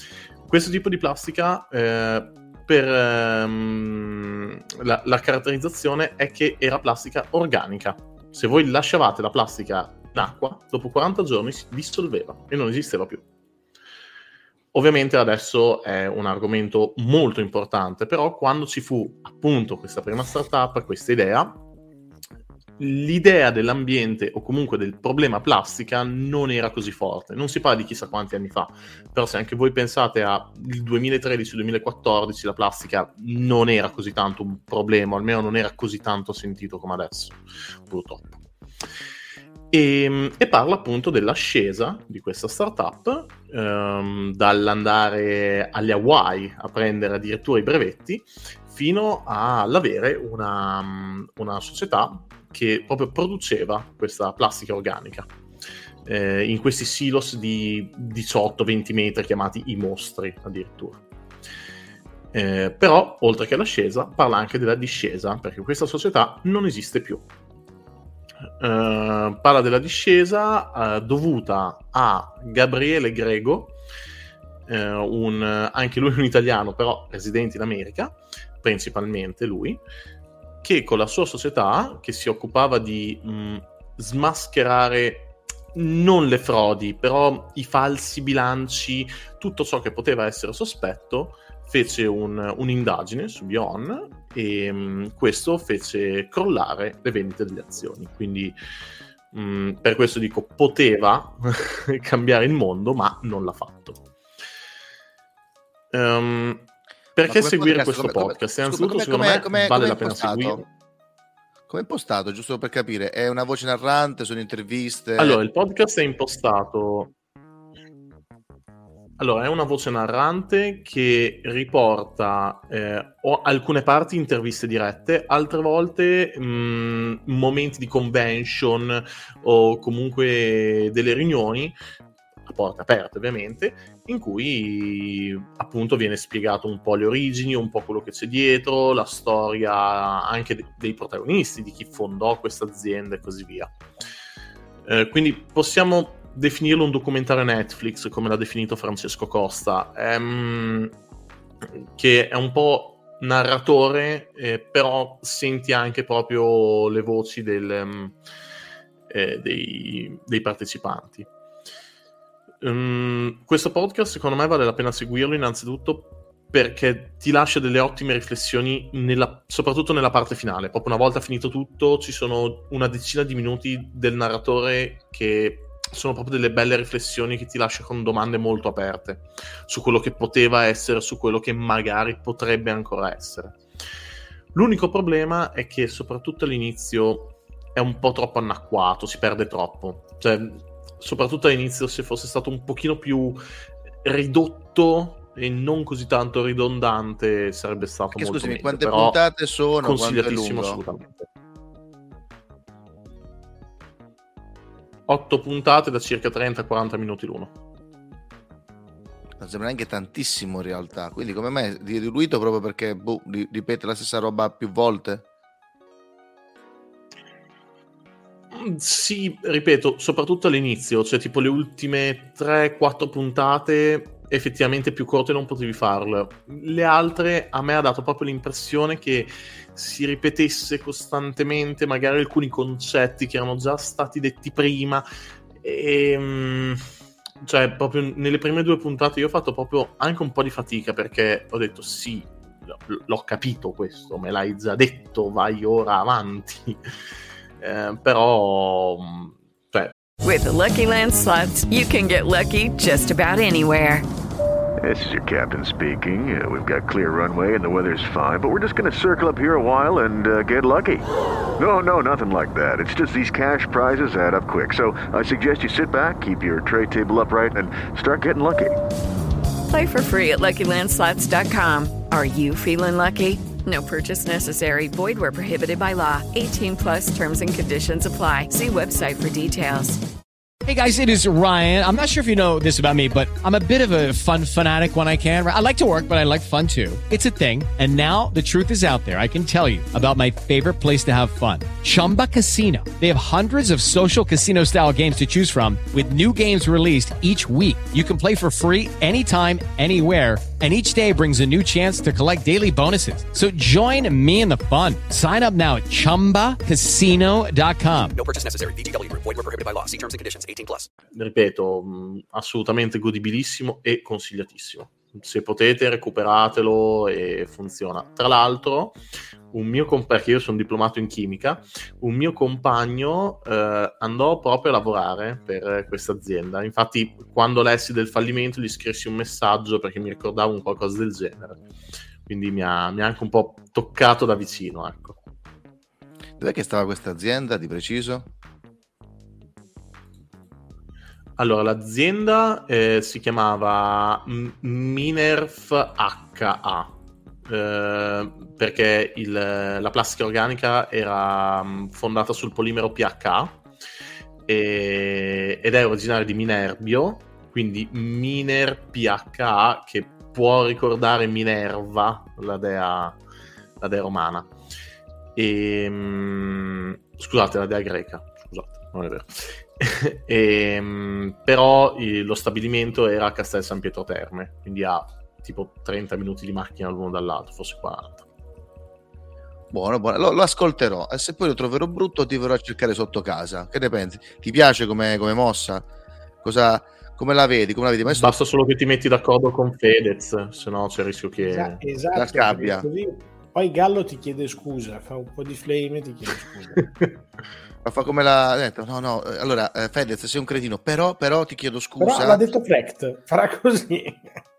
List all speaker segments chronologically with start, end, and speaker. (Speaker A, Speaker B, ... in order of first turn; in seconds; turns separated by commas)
Speaker A: 0.5-13.2, Speaker A: 14.7-21.6, Speaker A: 22.8-38.4, Speaker A: 39.7-55.3, Speaker A: 56.0-61.0, Speaker A: 62.3-67.2, Speaker A: 68.6-73.8, Speaker A: 74.7-79.8, Speaker A: 80.6-98.5, Speaker A: 99.3-104.0, Speaker A: 105.9-110.7, Speaker B: 107.2-110.6, Speaker B: 111.7-115.4, Speaker A: 115.2-117.1, Speaker A: 119.2-131.7, Speaker A: 132.4-143.7, Speaker A: 144.8-150.9, Speaker A: 151.8-158.1, Speaker A: 159.1-161.3, Speaker A: 162.6-183.6, Speaker A: 184.5-193.4, Speaker A: 194.0-199.2, Speaker B: 198.1-200.8, Speaker A: 199.8-201.3, Speaker A: 205.1-207.5, Speaker B: 209.4-215.2, Speaker A: 218.5-235.1, Speaker A: 235.6-236.8, Speaker A: 237.4-246.8, Speaker A: 247.6-249.9, Speaker C: 250.2-254.0, Speaker D: 254.8-261.0, Speaker D: 261.6-268.8, Speaker C: 269.7-280.0, Speaker E: 280.6-308.1, Speaker F: 308.1-310.9, Speaker A: 311.1-319.0, Speaker A: 319.5-331.6, Speaker A: 332.3-335.1, Speaker B: 336.4-338.3, Speaker A: 341.4-346.9, Speaker A: 347.5-353.6, Speaker A: 354.5-363.2, Speaker A: 363.8-364.5, Speaker A: 365.4-378.2, Speaker B: 379.7-385.9, Speaker B: 386.4-388.4, Speaker A: 388.1-391.8, Speaker G: 391.4-396.9, Speaker B: 392.1-392.9, Speaker A: 396.8-397.1, Speaker B: 397.8-402.4, Speaker G: 402.0-404.3